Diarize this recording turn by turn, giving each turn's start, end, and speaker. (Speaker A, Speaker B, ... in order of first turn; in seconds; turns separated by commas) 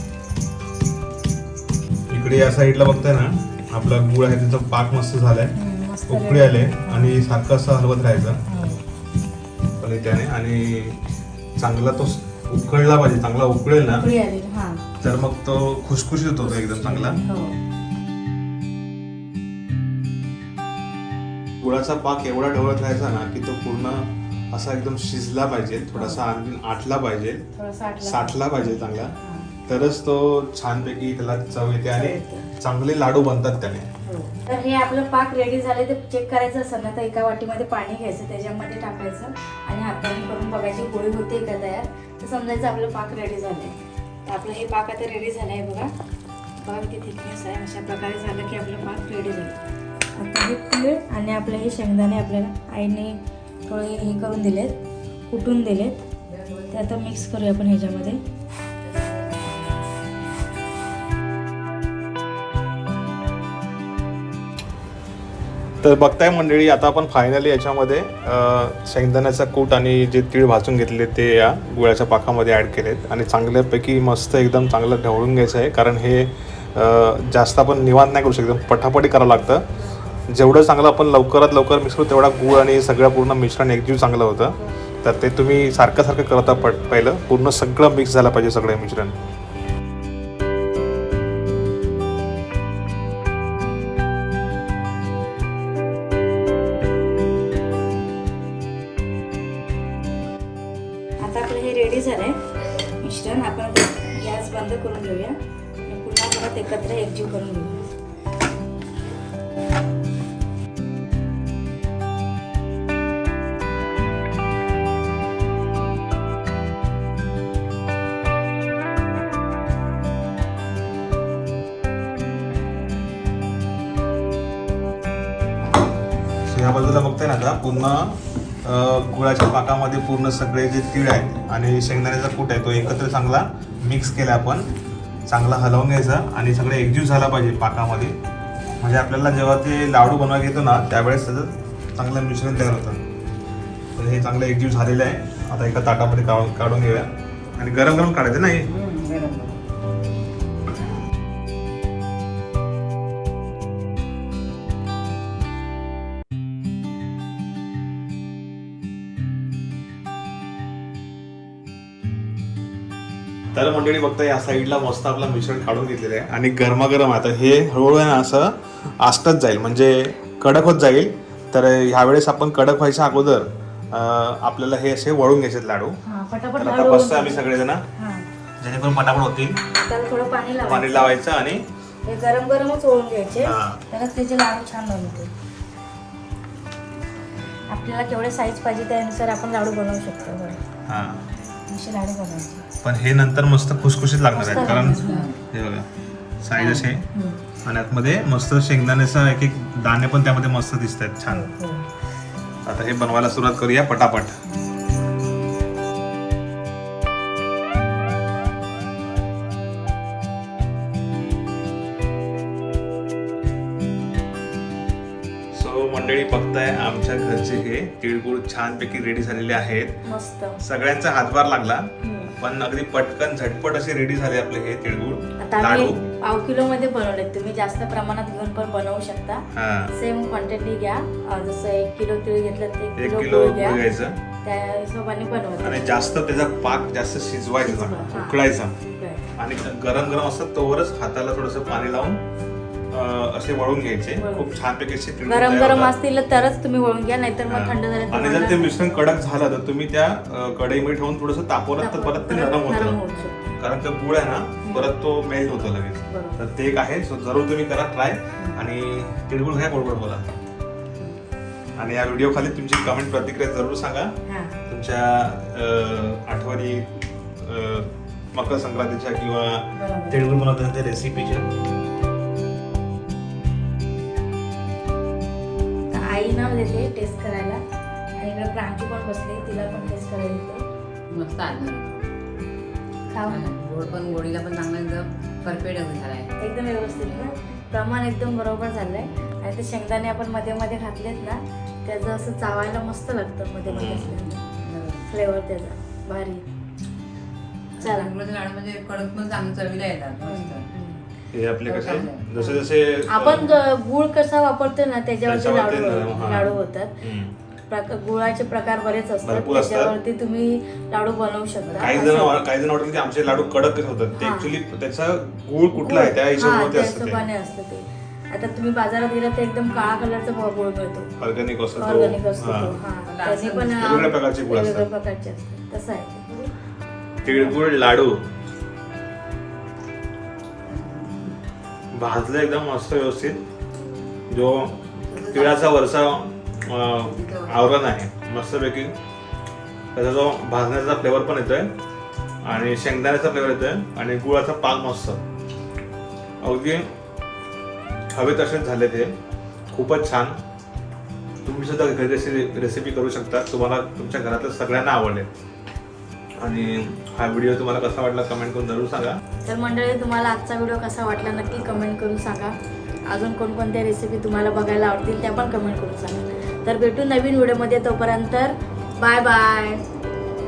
Speaker A: 2.1-5.5, Speaker B: 5.6-7.2, Speaker A: 6.1-8.4, Speaker B: 8.5-8.8, Speaker A: 9.8-11.0, Speaker A: 11.6-14.1, Speaker B: 13.9-14.8, Speaker A: 15.0-17.2, Speaker B: 16.4-17.6, Speaker A: 21.6-27.5, Speaker B: 25.9-26.2, Speaker B: 27.6-28.5, Speaker A: 28.0-29.2, Speaker B: 29.2-29.5, Speaker A: 29.7-33.9, Speaker B: 31.9-32.5, Speaker B: 34.0-43.8, Speaker B: 44.3-45.9, Speaker B: 46.6-49.6, Speaker B: 50.2-54.7, Speaker B: 55.3-56.0, Speaker C: 56.3-56.9, Speaker B: 56.7-58.2, Speaker C: 58.8-59.8, Speaker A: 65.8-79.7, Speaker A: 80.3-89.2, Speaker B: 101.2-102.4, Speaker B: 103.0-107.9, Speaker A: 126.5-134.7, Speaker A: 135.3-138.2, Speaker A: 138.8-143.0, Speaker A: 144.0-148.7, Speaker C: 148.7-149.6, Speaker A: 163.5-176.0, Speaker B: 176.1-177.4, Speaker A: 176.6-177.8, Speaker B: 178.0-178.2, Speaker A: 178.6-179.6, Speaker B: 179.7-181.1, Speaker A: 180.6-181.6, Speaker B: 182.1-185.3, Speaker A: 183.4-183.8, Speaker B: 187.7-190.6, Speaker A: 190.9-191.3, Speaker B: 191.7-192.7, Speaker A: 192.8-195.9, Speaker B: 194.3-195.3, Speaker C: 194.5-195.4, Speaker A: 196.4-197.1, Speaker C: 196.5-196.9, Speaker A: 197.6-201.5, Speaker B: 201.3-201.9, Speaker A: 202.7-204.4, Speaker A: 215.5-220.0, Speaker B: 220.1-220.6, Speaker A: 220.6-226.0, Speaker B: 222.0-222.3, Speaker B: 225.4-233.8, Speaker A: 229.5-229.9, Speaker A: 233.0-234.2, Speaker B: 234.4-235.9, Speaker A: 235.6-238.8, Speaker B: 237.6-239.3, Speaker A: 239.4-242.2, Speaker A: 242.9-245.9, Speaker B: 244.2-244.5, Speaker B: 245.3-248.8, Speaker A: 247.5-253.0, Speaker B: 251.8-253.6, Speaker A: 253.6-260.3, Speaker B: 254.6-254.9, Speaker B: 256.1-256.4, Speaker A: 261.8-264.1, Speaker B: 264.3-264.6, Speaker A: 264.7-271.5, Speaker B: 269.8-270.2, Speaker B: 275.9-277.6, Speaker B: 278.2-280.6, Speaker C: 281.1-281.9, Speaker B: 283.1-283.5, Speaker C: 283.2-286.3, Speaker B: 286.4-294.4, Speaker A: 293.7-294.1, Speaker C: 294.1-295.1, Speaker B: 295.1-296.4, Speaker C: 297.8-300.7, Speaker B: 297.8-298.1, Speaker B: 300.2-301.0, Speaker A: 301.3-303.6, Speaker C: 301.7-302.5, Speaker B: 303.1-307.0, Speaker A: 305.2-307.4, Speaker B: 307.7-312.4, Speaker A: 309.2-309.9, Speaker C: 311.6-312.0, Speaker A: 311.8-317.3, Speaker B: 314.2-314.6, Speaker B: 315.7-321.1, Speaker A: 321.2-322.8, Speaker B: 321.8-326.5, Speaker C: 323.1-324.1, Speaker A: 323.8-324.9, Speaker A: 327.2-328.2, Speaker B: 327.3-327.6, Speaker C: 330.7-331.3, Speaker A: 331.9-333.4, Speaker A: 334.3-338.9, Speaker C: 335.0-335.7, Speaker C: 337.0-337.8, Speaker A: 339.9-341.7, Speaker A: 342.4-345.2, Speaker A: 346.4-346.9, Speaker A: 348.1-349.1, Speaker A: 349.7-350.4, Speaker A: 351.4-355.3, Speaker A: 356.4-359.2, Speaker B: 359.4-362.6, Speaker B: 363.1-369.9